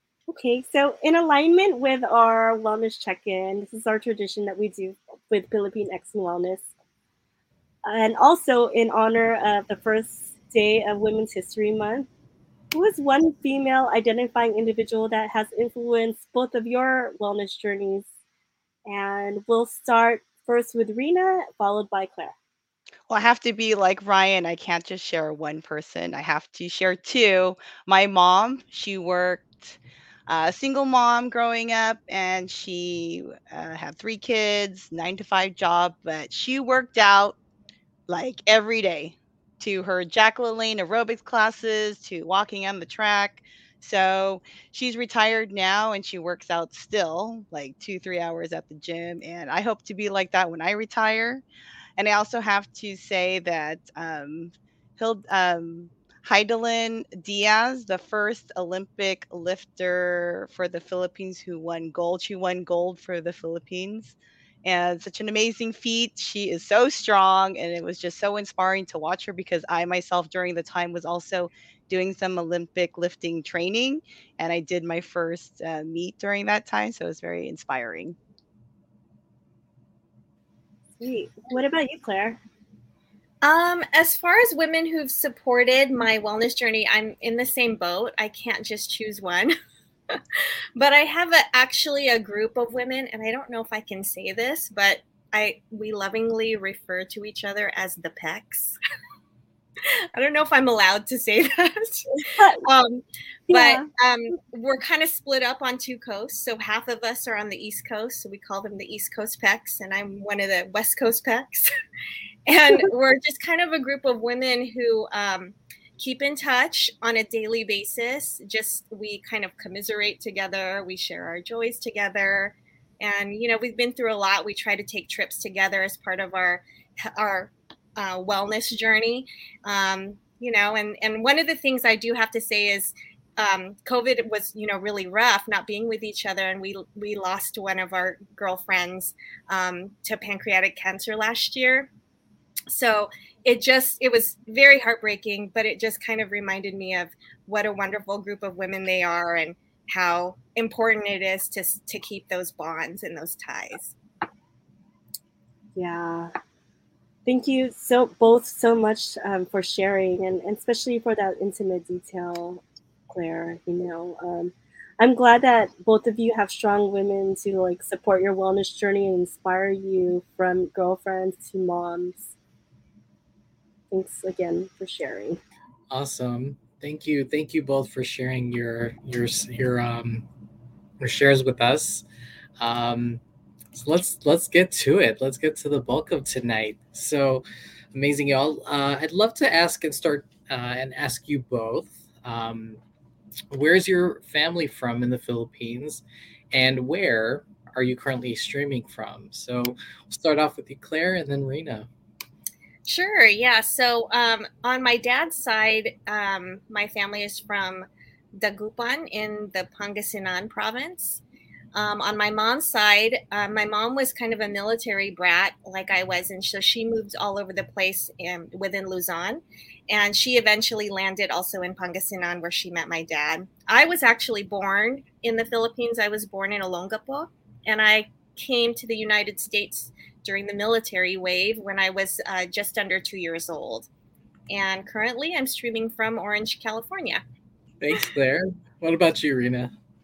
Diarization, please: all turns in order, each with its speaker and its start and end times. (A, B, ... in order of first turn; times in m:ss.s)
0:00.3-0:06.6 A
0:07.8-0:12.1 A
0:12.7-0:18.0 A
0:18.9-0:22.3 A
0:23.1-0:37.4 B
0:38.1-0:51.4 B
0:52.0-1:18.2 B
1:21.0-1:22.4 A
1:23.4-1:29.5 C
1:30.1-1:38.8 C
1:39.8-1:42.1 C
1:42.3-1:42.6 A
1:42.6-1:51.7 C
1:43.5-1:43.9 A
1:52.5-2:21.9 C
2:22.7-2:33.9 C
2:35.8-2:36.3 A
2:37.2-2:52.3 A
2:53.9-2:55.4 A
2:55.9-3:00.2 D
3:01.0-3:02.0 D
3:02.6-3:03.2 D
3:03.7-3:12.8 D
3:13.5-3:21.9 D
3:22.8-3:31.2 C
3:31.7-3:53.9 C
3:54.5-3:57.2 C
3:57.8-3:59.7 D